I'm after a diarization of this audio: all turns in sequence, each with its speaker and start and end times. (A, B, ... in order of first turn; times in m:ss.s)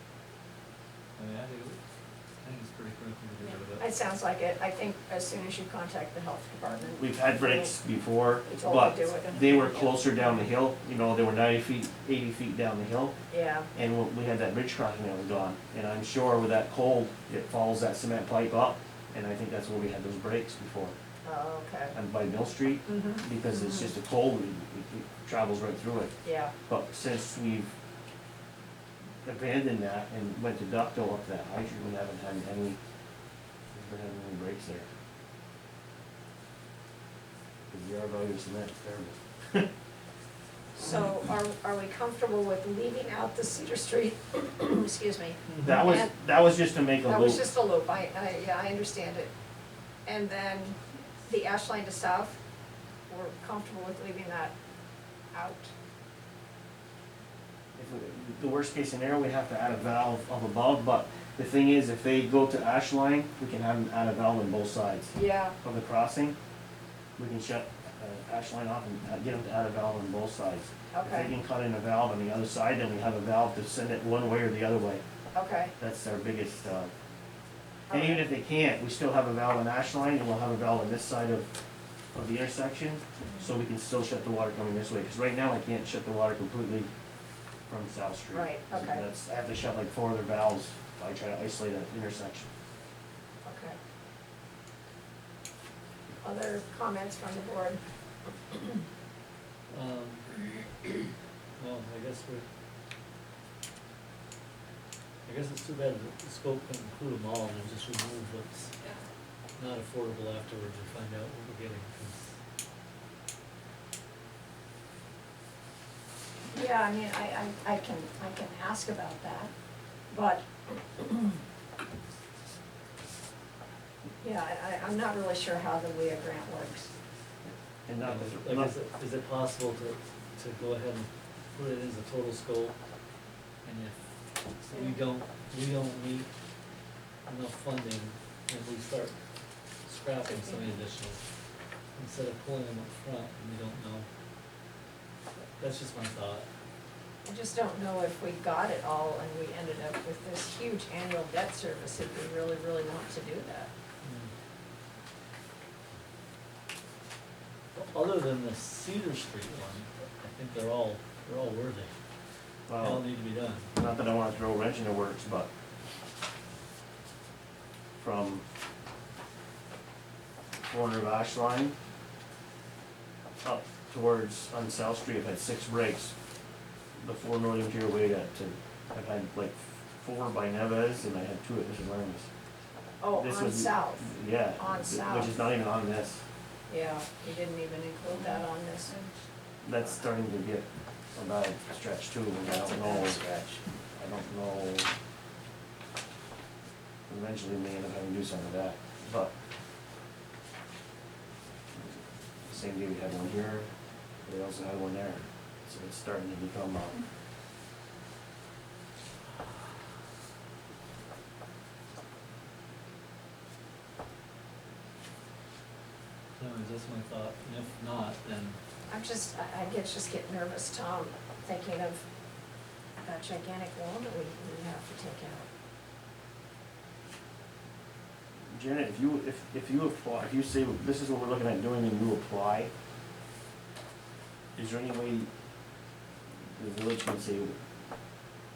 0:01.2-0:01.8 A
0:02.4-0:03.8 A
0:03.8-0:07.7 B
0:07.0-0:13.1 C
0:08.4-0:09.9 B
0:13.3-0:13.7 B
0:13.7-0:21.0 C
0:21.2-0:21.9 B
0:21.9-0:26.1 C
0:22.9-0:23.9 B
0:26.2-0:26.5 B
0:26.7-0:27.7 C
0:29.2-0:32.8 C
0:33.7-0:34.9 C
0:37.7-0:39.7 C
0:40.8-0:46.1 B
0:45.5-0:45.8 A
0:45.6-0:47.5 C
0:47.0-0:49.3 B
0:50.0-0:52.4 B
0:53.1-0:54.5 B
0:55.3-0:55.7 B
0:57.8-1:06.4 C
1:05.1-1:05.5 B
1:07.2-1:15.0 C
1:10.9-1:11.3 B
1:15.4-1:15.7 B
1:15.8-1:16.9 C
1:17.9-1:18.2 B
1:17.9-1:21.5 C
1:22.1-1:26.9 C
1:27.7-1:32.5 C
1:28.3-1:29.0 B
1:33.4-1:33.8 B
1:36.2-1:37.8 B
1:38.5-1:38.8 B
1:39.7-1:40.9 A
1:41.6-1:42.4 A
1:45.2-1:48.7 A
1:49.6-1:52.3 A
1:56.5-1:59.5 B
2:00.1-2:01.4 B
2:04.2-2:06.9 B
2:07.8-2:08.7 C
2:08.0-2:12.8 A
2:13.6-2:16.3 A
2:17.2-2:19.1 A
2:19.8-2:21.2 A
2:22.0-2:24.1 A
2:25.6-2:26.4 A
2:27.2-2:33.7 B
2:34.0-2:34.3 A
2:37.7-2:41.9 A
2:42.7-2:43.1 C
2:42.8-2:43.7 A
2:43.7-2:45.5 C
2:48.0-2:48.4 C
2:50.6-2:51.7 C
2:53.4-2:56.1 C
2:57.0-3:02.3 C
3:03.0-3:05.4 B
3:03.2-3:06.2 C
3:06.7-3:09.0 B
3:09.6-3:13.2 C
3:12.4-3:13.6 B
3:13.9-3:14.9 C
3:17.1-3:19.3 C
3:22.4-3:23.7 C
3:24.2-3:27.0 C
3:36.4-3:38.6 A
3:38.9-3:42.0 B
3:43.0-3:45.4 B
3:48.5-3:52.7 C
3:54.6-3:55.3 C
3:56.4-3:57.6 C